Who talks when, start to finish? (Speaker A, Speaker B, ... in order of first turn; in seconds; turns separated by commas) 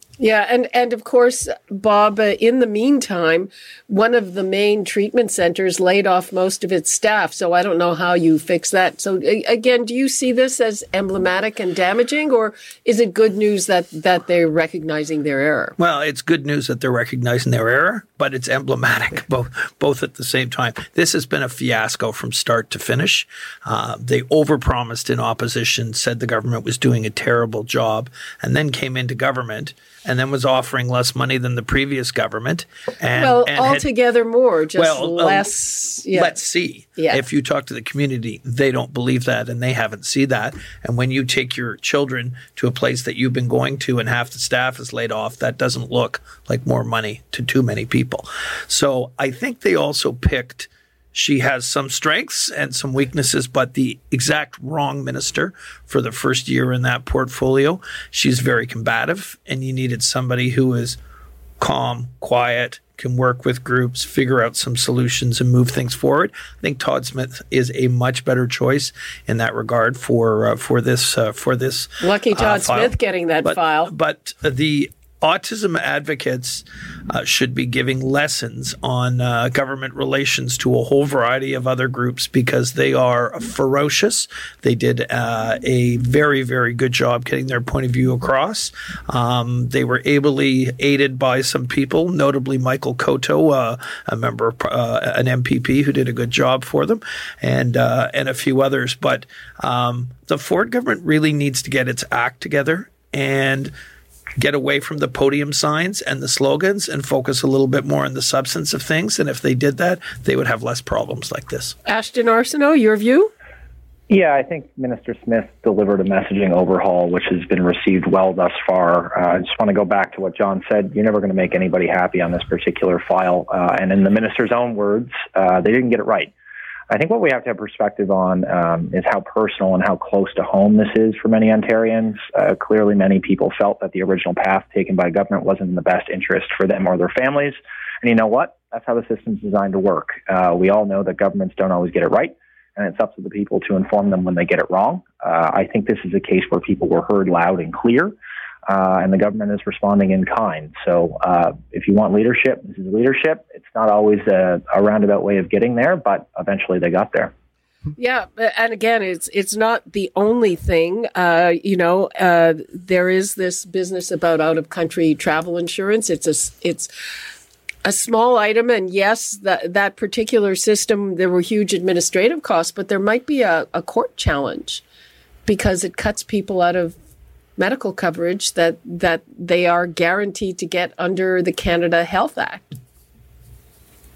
Speaker A: 0.2-15.7, Speaker B: 15.8-33.9, Speaker A: 33.1-36.4, Speaker B: 34.7-61.0, Speaker A: 37.0-37.2, Speaker B: 61.6-103.7, Speaker A: 72.0-73.9, Speaker B: 104.4-111.7, Speaker A: 111.9-113.3, Speaker C: 114.1-126.3, Speaker C: 126.9-148.1, Speaker C: 148.7-157.3, Speaker A: 158.0-166.9, Speaker A: 167.8-174.8, Speaker A: 175.4-176.9, Speaker A: 177.6-182.6